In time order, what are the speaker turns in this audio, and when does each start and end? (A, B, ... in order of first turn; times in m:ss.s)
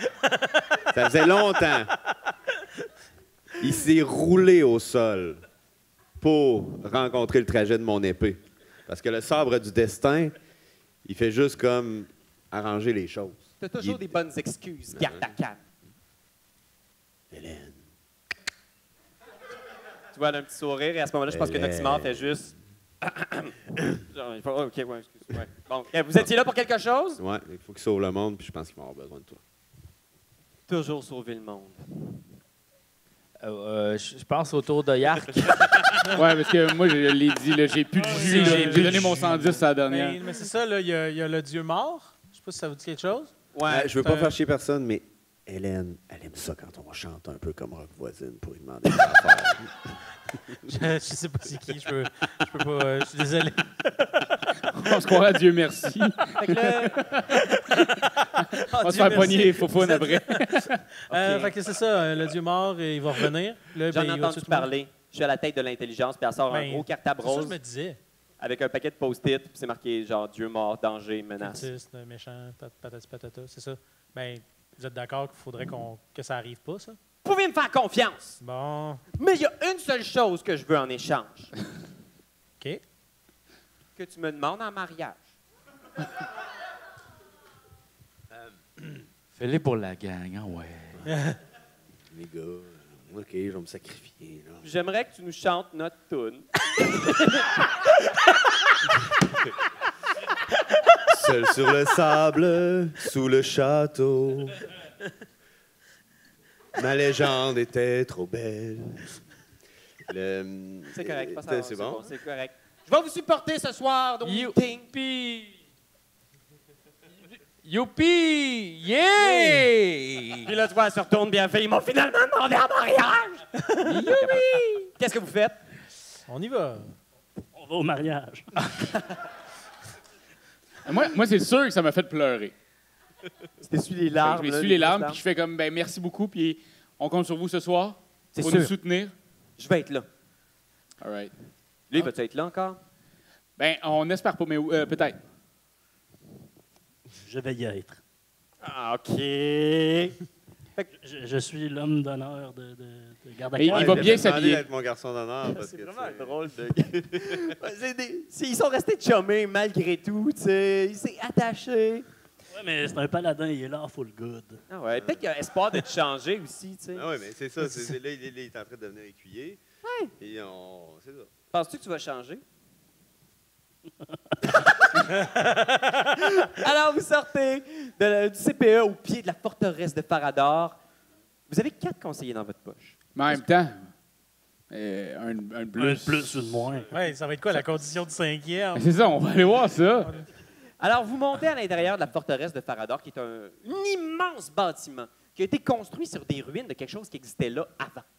0:00.9-0:01.9 A
0:03.6-0:05.4 A
0:06.2-0:10.3 A
0:11.0-0:14.2 A
0:13.6-0:15.6 B
0:14.9-0:15.3 A
0:17.3-0:17.8 A
0:20.1-0:23.5 B
0:21.3-0:22.4 A
0:24.1-0:27.2 B
0:27.2-0:29.4 A
0:30.7-0:32.2 B
0:33.4-0:36.0 C
0:36.1-0:40.2 D
0:38.0-0:43.3 E
0:38.0-0:39.6 C
0:43.5-0:43.9 B
0:43.7-0:49.8 A
0:44.0-0:44.3 E
0:50.7-0:54.3 E
0:54.6-0:57.4 D
0:56.4-0:57.0 B
0:57.5-1:04.7 E
0:58.6-1:00.8 D
0:58.7-0:59.8 B
1:01.1-1:01.5 B
1:03.9-1:07.6 B
1:06.5-1:08.0 E
1:08.4-1:11.7 B
1:11.4-1:17.0 E
1:17.2-1:18.4 B
1:18.4-1:19.0 E
1:19.2-1:21.5 B
1:24.0-1:25.3 B
1:29.3-1:31.0 C
1:31.0-1:31.4 E
1:32.1-1:34.7 A
1:34.6-1:36.4 B
1:41.0-1:44.7 A
1:46.7-1:49.2 A
1:50.1-1:52.1 A
1:50.9-1:54.9 B
1:54.2-1:55.6 C
1:57.6-2:00.5 C
1:59.2-1:59.6 B
2:00.4-2:03.5 B
2:03.6-2:04.1 E
2:03.8-2:04.9 C
2:04.2-2:05.6 B
2:06.3-2:07.0 E
2:07.5-2:08.8 F
2:10.8-2:12.5 D
2:13.6-2:15.2 B
2:14.2-2:19.1 D
2:18.3-2:18.7 B
2:19.6-2:20.1 B
2:21.0-2:21.3 D
2:21.9-2:22.8 B
2:23.6-2:25.2 D
2:27.2-2:28.0 F
2:28.6-2:30.2 B
2:30.9-2:34.5 F
2:33.6-2:34.6 D
2:33.7-2:37.5 A
2:35.5-2:42.0 B
2:42.5-2:44.6 F
2:44.7-2:47.0 B
2:44.9-2:45.2 A
2:46.9-2:49.6 A
2:49.8-2:50.1 B
2:50.2-2:51.3 A
2:51.5-2:52.4 B
2:54.0-2:54.4 F
2:54.5-2:55.2 B
2:55.2-2:55.8 E
2:56.0-3:00.8 B
3:01.5-3:03.0 B
3:03.1-3:03.9 D
3:04.7-3:06.3 D
3:05.8-3:06.9 F
3:06.9-3:09.2 E
3:08.7-3:10.2 D
3:10.8-3:18.0 B